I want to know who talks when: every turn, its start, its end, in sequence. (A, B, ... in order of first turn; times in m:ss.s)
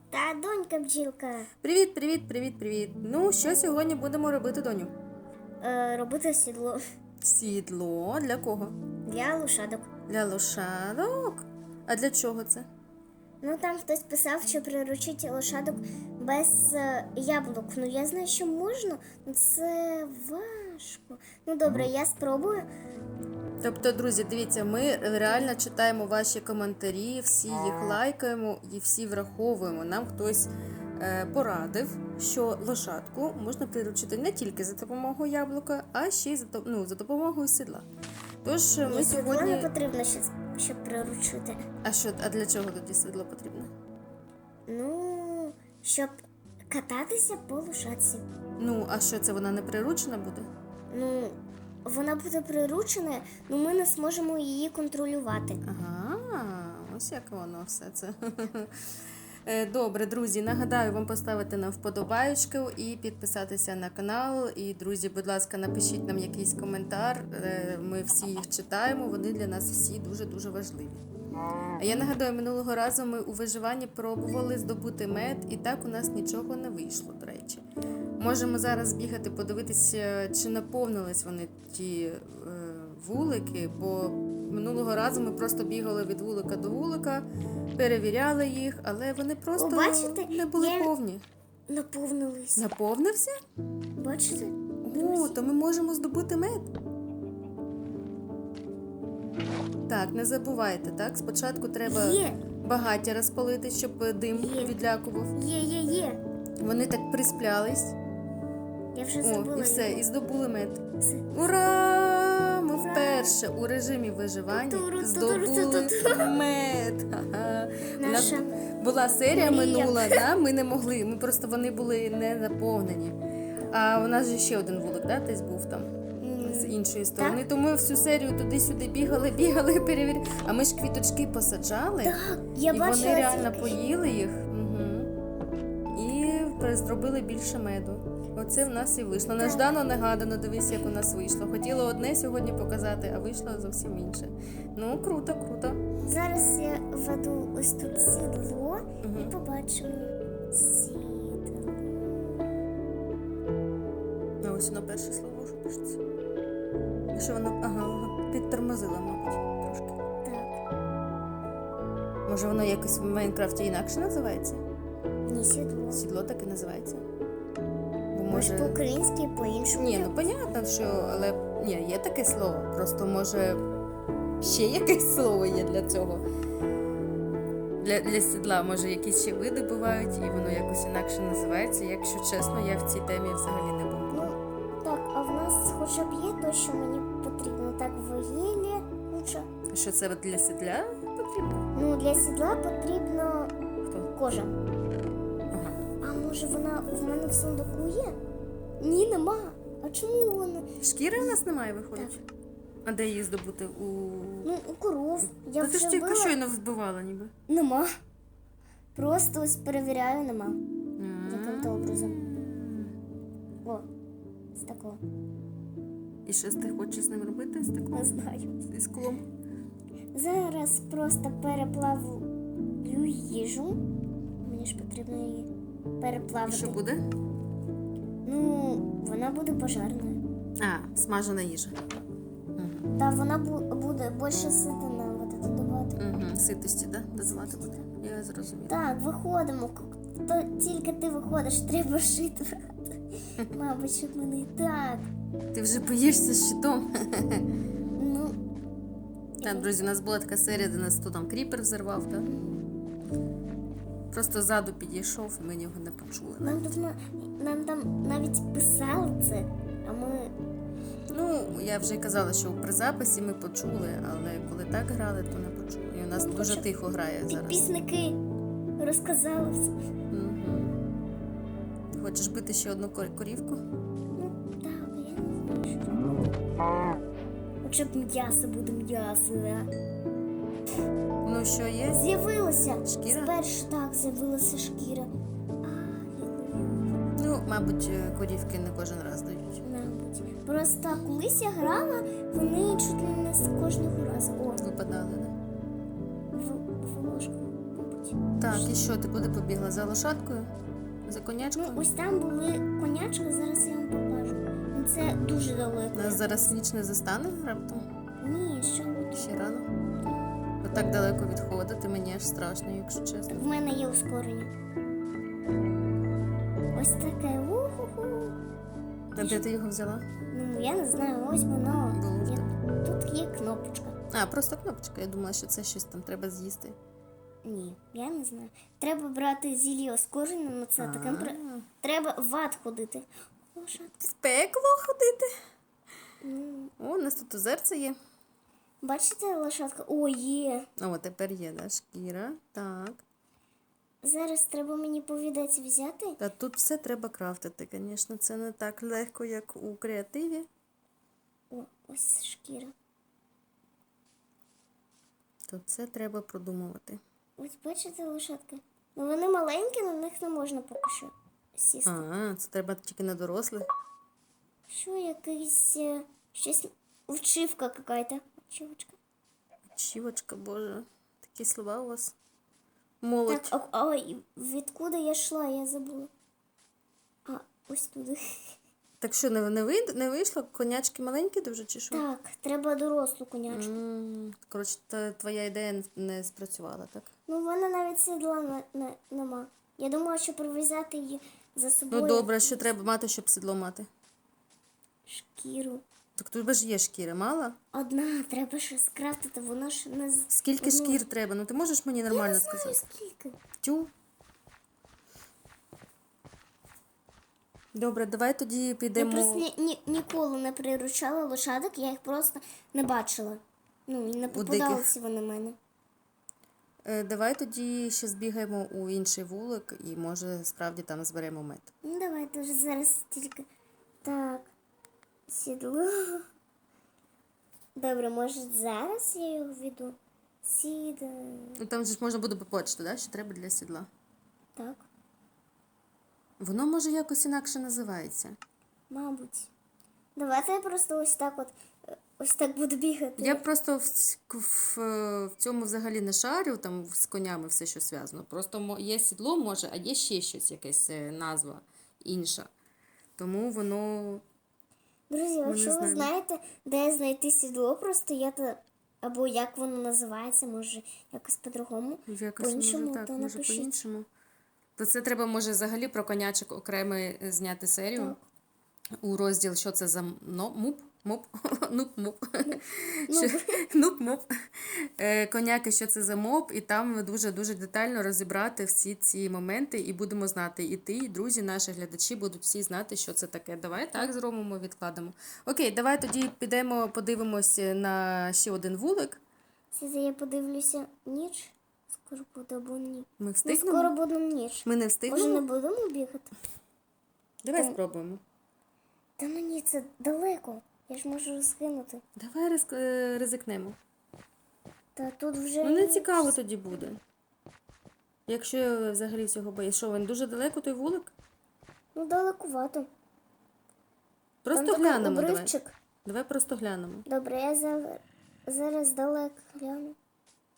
0:00.1-0:01.5 A
0:01.6-0:04.9 B
0:05.6-0:06.8 A
0:07.2-0:08.7 B
0:09.1-0:09.9 A
0:10.1-0:12.7 B
0:13.4-0:22.7 A
0:23.6-0:37.8 B
0:38.4-0:39.7 B
0:38.8-0:41.6 A
0:41.8-0:43.7 B
0:44.7-0:46.2 A
0:46.7-0:48.2 A
0:48.6-0:50.5 B
0:50.9-0:55.6 A
0:55.6-0:58.7 B
0:59.4-1:11.0 B
1:11.8-1:17.6 B
1:18.2-1:27.2 B
1:27.8-1:31.2 B
1:29.6-1:30.9 A
1:31.7-1:32.7 A
1:32.6-1:33.4 B
1:34.0-1:35.4 A
1:34.8-1:36.7 B
1:39.9-1:45.4 B
1:41.8-1:42.4 A
1:44.4-1:44.8 A
1:45.3-1:46.2 A
1:46.6-1:48.0 B
1:48.9-1:50.1 A
1:49.2-2:03.2 B
1:51.0-1:51.3 A
1:52.8-1:53.4 A
1:54.5-1:56.4 A
1:58.0-1:58.6 A
1:59.3-2:00.3 A
2:03.7-2:12.1 B
2:06.2-2:07.4 A
2:12.0-2:13.8 A
2:12.7-2:15.1 B
2:15.9-2:25.8 B
2:19.4-2:19.7 A
2:26.0-2:32.0 A
2:29.0-2:29.3 B
2:34.4-2:36.0 B
2:37.1-2:40.0 B
2:40.2-2:40.6 A
2:42.3-2:44.6 B
2:45.3-2:46.0 A
2:45.9-2:47.0 B
2:48.1-2:48.8 B
2:48.3-2:50.3 A
2:49.8-2:53.6 B
2:54.4-2:56.2 B
2:57.8-3:04.3 B
3:04.1-3:09.5 A
3:09.7-3:11.7 B
3:11.8-3:13.5 A
3:13.8-3:14.1 B
3:14.1-3:14.5 A
3:15.5-3:15.8 B
3:16.0-3:18.2 A
3:18.8-3:20.6 A
3:20.8-3:22.2 B
3:22.8-3:24.5 B
3:24.4-3:26.4 A
3:25.4-3:27.3 B
3:27.5-3:27.9 A
3:28.9-3:30.6 A
3:31.0-3:32.9 B
3:31.3-3:32.2 A
3:34.5-3:35.0 A
3:36.2-3:38.1 B
3:37.9-3:38.6 A
3:38.7-3:39.2 B
3:40.1-3:42.3 A
3:42.8-3:43.8 A
3:44.4-3:46.8 A
3:46.4-3:47.0 B
3:48.2-3:50.2 A
3:50.6-3:51.8 B
3:52.6-3:52.9 B
3:53.0-3:56.0 A
3:56.0-3:58.8 B
3:57.5-3:57.8 A
3:58.7-4:05.1 A
4:05.5-4:07.4 B
4:08.0-4:08.4 A
4:09.4-4:09.7 A
4:09.4-4:12.3 B
4:12.3-4:12.6 A
4:14.1-4:16.7 B
4:16.4-4:20.3 A
4:21.1-4:27.6 B
4:26.2-4:26.6 A
4:27.3-4:28.2 A
4:28.8-4:29.7 A
4:30.1-4:30.8 B
4:31.9-4:33.6 B
4:34.2-4:36.1 A
4:37.6-4:39.7 A
4:41.2-4:42.0 B
4:41.9-4:45.1 A
4:42.8-4:43.3 B
4:45.6-4:46.9 A
4:47.2-4:49.6 B
4:49.6-4:54.6 A
4:54.6-4:55.3 B
4:56.3-4:58.9 A
4:58.4-5:00.5 B
5:01.1-5:01.8 B
5:01.6-5:06.6 A
5:05.9-5:07.9 B
5:08.2-5:09.3 A
5:09.1-5:09.7 B
5:10.6-5:13.4 B
5:13.3-5:14.5 A
5:16.7-5:18.4 A
5:19.2-5:20.1 B
5:20.3-5:24.0 A
5:21.9-5:22.5 B
5:24.1-5:26.8 B
5:27.4-5:34.1 A
5:30.8-5:31.7 B
5:34.0-5:35.3 B
5:36.2-5:36.7 A
5:36.8-5:38.0 B
5:38.8-5:40.7 A
5:40.8-5:43.0 B
5:44.0-5:46.2 A
5:46.2-5:50.5 B
5:51.5-5:52.7 A
5:55.5-5:57.0 B
5:57.4-6:02.0 A
6:01.9-6:03.7 B
6:04.7-6:09.0 A
6:09.8-6:12.1 B
6:13.0-6:13.6 B
6:13.3-6:16.1 A
6:17.2-6:18.2 A
6:19.0-6:22.0 B
6:21.9-6:23.8 A
6:23.5-6:27.1 B
6:27.3-6:32.7 A
6:31.9-6:33.9 B
6:35.1-6:35.8 A
6:36.2-6:37.6 B
6:37.7-6:41.0 A
6:40.3-6:42.8 B
6:42.1-6:43.4 A
6:43.6-6:43.9 B
6:47.8-6:49.4 B
6:48.9-6:55.6 A
6:54.3-6:54.9 B
6:56.8-7:01.7 B
7:01.8-7:03.5 A
7:04.0-7:04.5 A
7:05.3-7:06.2 A
7:07.8-7:11.6 A
7:11.6-7:13.9 B
7:14.6-7:14.9 A
7:16.4-7:18.4 B
7:18.9-7:19.5 A
7:20.2-7:23.4 A
7:23.2-7:32.5 B
7:33.2-7:34.2 B
7:35.1-7:43.7 A
7:35.4-7:36.1 B
7:42.1-7:44.1 B
7:44.8-7:48.2 B
7:48.0-7:48.2 A
7:49.0-8:09.2 B
7:52.4-7:53.6 A
8:09.7-8:16.3 A
8:13.2-8:13.9 B
8:14.6-8:15.4 B
8:17.4-8:18.2 B
8:19.2-8:22.0 A
8:22.2-8:23.8 B
8:25.0-8:26.3 A
8:25.6-8:27.0 B
8:28.3-8:31.1 B
8:31.9-8:32.9 A
8:34.4-8:35.5 B
8:34.5-8:35.8 A
8:36.0-8:37.0 B
8:37.1-8:40.0 A